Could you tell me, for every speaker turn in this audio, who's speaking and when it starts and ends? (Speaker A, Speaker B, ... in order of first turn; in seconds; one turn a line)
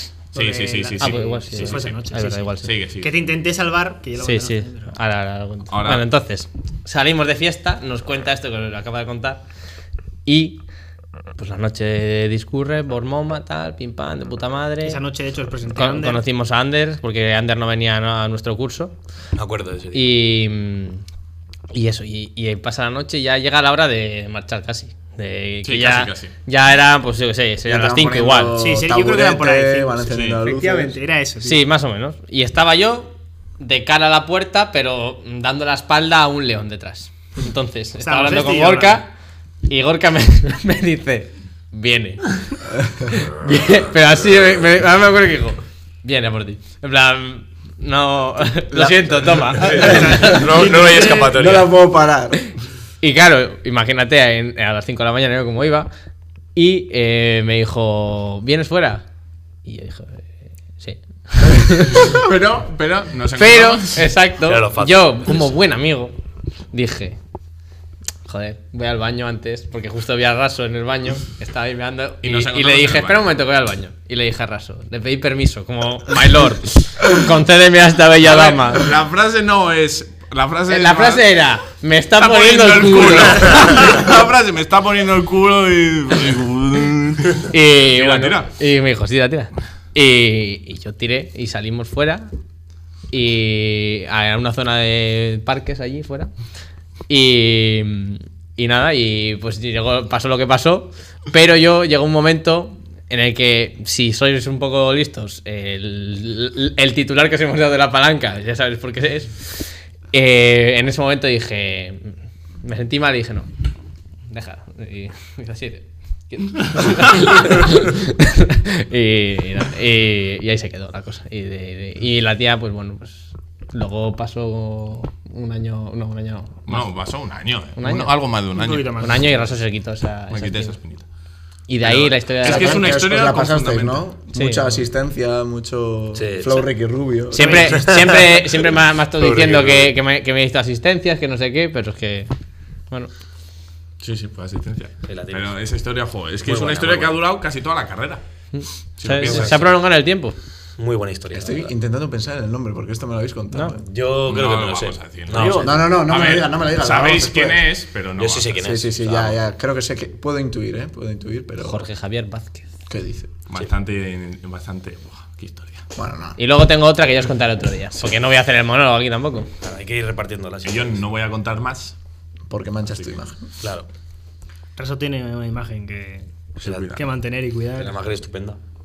Speaker A: 0.3-5.0
Speaker B: 0.3-3.1
Speaker C: 1.0-2.7
Speaker C: 4.2-9.4
Speaker B: 5.7-6.1
Speaker C: 10.2-10.6
Speaker C: 11.4-15.0
Speaker A: 14.8-16.2
Speaker C: 15.7-18.9
Speaker D: 19.4-20.1
Speaker C: 19.9-21.0
Speaker C: 21.7-28.6
Speaker B: 25.6-26.3
Speaker E: 27.6-31.0
Speaker A: 28.6-31.6
Speaker B: 30.1-30.4
Speaker C: 31.4-39.1
Speaker A: 38.0-39.0
Speaker C: 39.6-42.3
Speaker C: 43.1-50.3
Speaker E: 48.7-52.5
Speaker D: 49.5-51.7
Speaker A: 49.7-51.3
Speaker C: 53.0-55.9
Speaker C: 56.5-59.0
Speaker C: 59.6-62.2
Speaker B: 62.0-64.1
Speaker C: 63.4-66.1
Speaker D: 64.4-65.5
Speaker C: 66.7-67.2
Speaker C: 68.2-78.9
Speaker B: 72.2-73.2
Speaker B: 78.2-81.3
Speaker C: 80.7-84.0
Speaker B: 82.2-88.5
Speaker C: 87.5-92.3
Speaker C: 93.1-96.3
Speaker C: 97.1-113.5
Speaker C: 114.3-126.9
Speaker B: 126.7-129.0
Speaker C: 127.8-128.1
Speaker A: 128.5-129.5
Speaker C: 129.0-130.8
Speaker B: 130.3-131.1
Speaker C: 131.7-132.9
Speaker B: 131.8-134.1
Speaker E: 132.4-137.8
Speaker C: 134.3-134.7
Speaker D: 136.1-136.7
Speaker C: 137.3-142.3
Speaker A: 137.4-137.9
Speaker D: 137.7-138.4
Speaker D: 139.2-139.9
Speaker B: 144.0-148.2
Speaker D: 145.1-145.5
Speaker D: 146.4-147.2
Speaker C: 148.6-150.4
Speaker B: 149.0-149.6
Speaker D: 149.2-149.7
Speaker D: 150.8-151.7
Speaker E: 151.3-153.8
Speaker D: 153.8-155.8
Speaker B: 154.2-158.7
Speaker E: 155.3-157.6
Speaker D: 158.2-159.4
Speaker E: 158.6-161.8
Speaker C: 161.6-162.7
Speaker E: 162.9-163.3
Speaker B: 163.5-165.8
Speaker E: 166.0-166.4
Speaker C: 166.4-169.5
Speaker D: 169.6-171.0
Speaker B: 170.6-171.9
Speaker E: 172.5-173.5
Speaker D: 173.6-173.9
Speaker A: 174.8-176.3
Speaker B: 176.6-177.0
Speaker D: 176.6-176.9
Speaker A: 176.9-177.9
Speaker D: 177.8-178.6